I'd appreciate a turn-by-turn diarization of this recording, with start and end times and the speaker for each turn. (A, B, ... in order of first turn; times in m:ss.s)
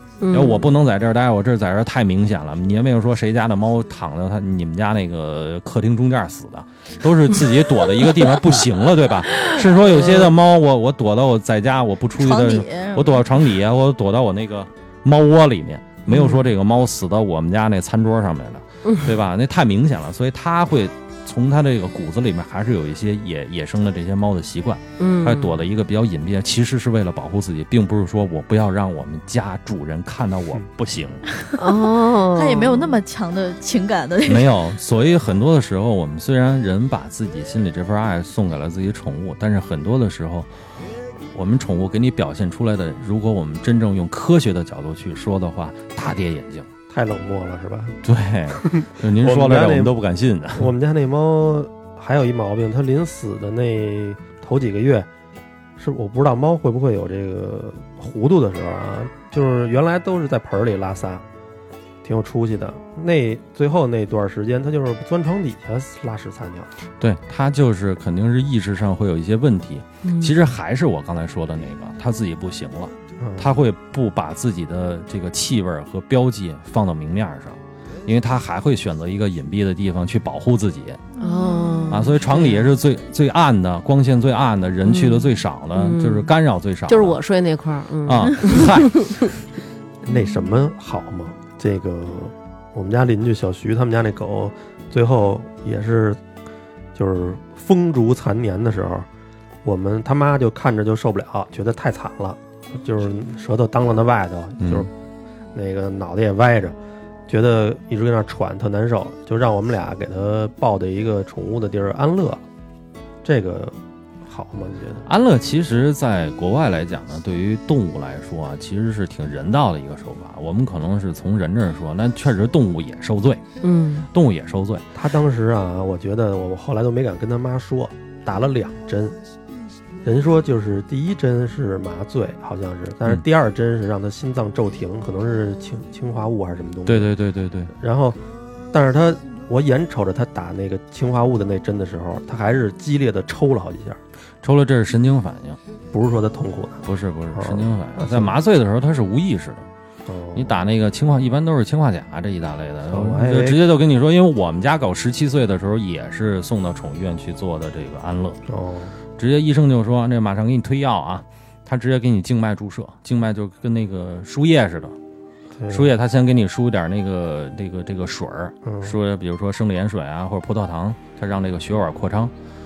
0:00.2-0:00.7 A
0:00.3-0:31.2 B
0:09.8-0:10.3 A
0:12.2-0:13.5 C
0:16.1-0:16.4 A
0:18.8-0:19.1 A
0:25.0-0:25.6 A
0:31.6-0:33.0 A
0:32.3-0:34.6 C
0:34.2-0:40.5 B
0:41.3-0:46.7 B
0:46.9-0:48.0 D
0:48.0-0:50.7 B
0:48.5-0:49.9 D
0:50.6-0:55.1 D
0:55.8-1:01.2 D
1:02.0-1:06.7 D
1:07.0-1:21.0 B
1:10.0-1:10.3 A
1:13.2-1:13.5 D
1:21.2-1:22.7 A
1:21.2-1:21.9 C
1:21.9-1:27.2 B
1:24.8-1:26.3 A
1:26.9-1:29.3 A
1:28.0-1:29.3 B
1:30.0-1:36.2 D
1:36.9-1:39.1 D
1:39.6-1:44.9 D
1:44.6-1:44.9 B
1:45.5-1:46.8 D
1:47.3-1:52.4 D
1:53.2-1:55.1 D
1:55.0-2:03.4 B
2:03.6-2:04.1 A
2:04.1-2:04.9 B
2:04.9-2:09.2 D
2:10.0-2:17.1 D
2:16.8-2:17.7 B
2:17.8-2:18.2 D
2:18.7-2:24.0 D
2:24.4-2:25.6 B
2:25.9-2:28.3 D
2:26.8-2:29.7 B
2:30.1-2:30.6 D
2:30.3-2:38.4 B
2:32.9-2:33.6 D
2:38.5-2:38.9 D
2:39.2-2:45.0 B
2:45.6-2:45.9 D
2:45.7-2:52.3 B
2:48.6-2:49.0 D